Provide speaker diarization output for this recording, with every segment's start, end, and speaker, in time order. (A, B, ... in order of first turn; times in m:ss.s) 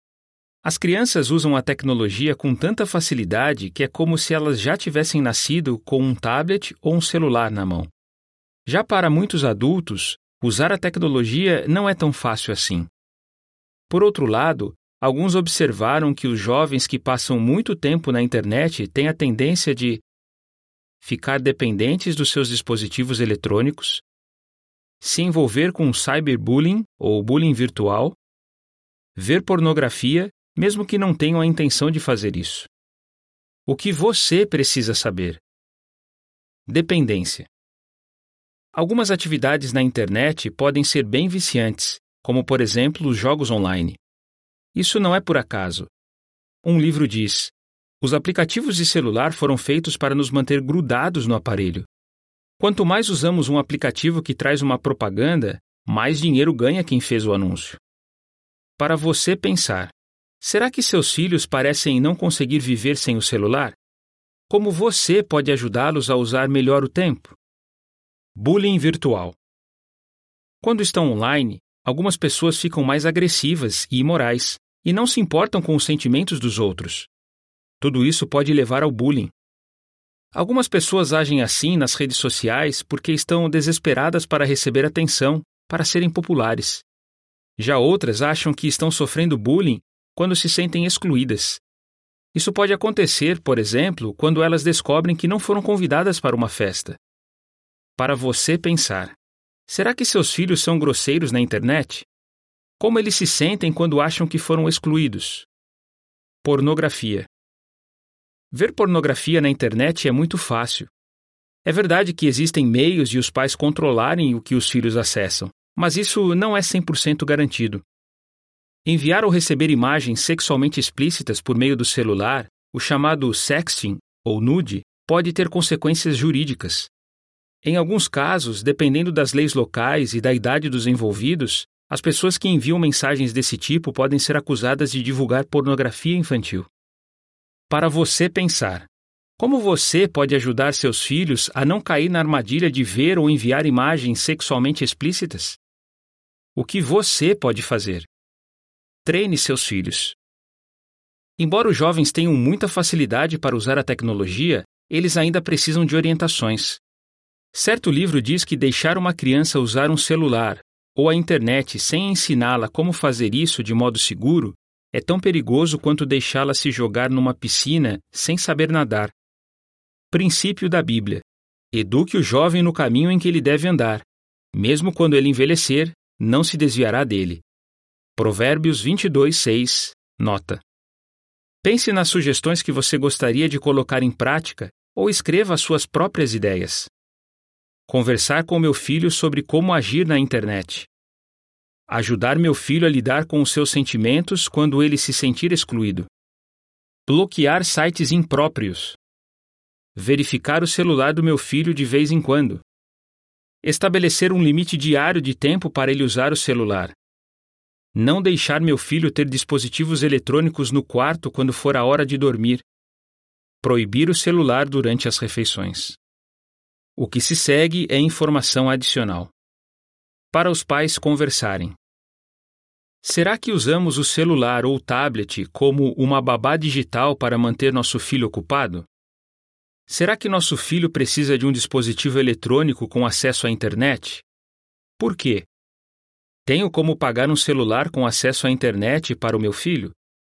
0:00.6-0:07.9 A
0:08.7-0:12.9 A
0:13.9-0:20.0 A
0:21.0-0:24.0 A
0:25.0-0:28.2 A
0:29.2-0:32.7 A
0:33.7-0:35.4 A
0:36.7-0:37.5 A
0:38.7-0:44.0 A
0:44.7-0:45.9 A
0:46.6-0:51.9 A
0:52.6-0:57.8 A
0:58.8-1:03.8 A
1:04.5-1:07.4 A
1:08.4-1:09.4 A
1:10.6-1:17.1 A
1:17.8-1:19.3 A
1:20.3-1:26.8 A
1:27.6-1:31.6 A
1:32.3-1:37.0 A
1:38.0-1:42.1 A
1:42.8-1:45.5 A
1:46.4-1:47.3 A
1:48.5-1:50.9 A
1:51.6-1:57.8 A
1:58.8-2:06.9 A
2:07.6-2:16.7 A
2:17.7-2:25.6 A
2:26.6-2:28.1 A
2:29.0-2:30.2 A
2:31.4-2:36.8 A
2:37.5-2:49.1 A
2:50.1-2:57.4 A
2:58.2-3:00.6 A
3:01.6-3:06.9 A
3:07.9-3:10.9 A
3:11.9-3:16.1 A
3:17.1-3:19.0 A
3:20.0-3:22.6 A
3:23.6-3:27.0 A
3:27.9-3:32.6 A
3:33.6-3:36.0 A
3:37.0-3:39.3 A
3:40.3-3:41.8 A
3:43.0-3:48.9 A
3:49.9-3:54.2 A
3:55.0-3:55.5 A
3:56.4-4:00.0 A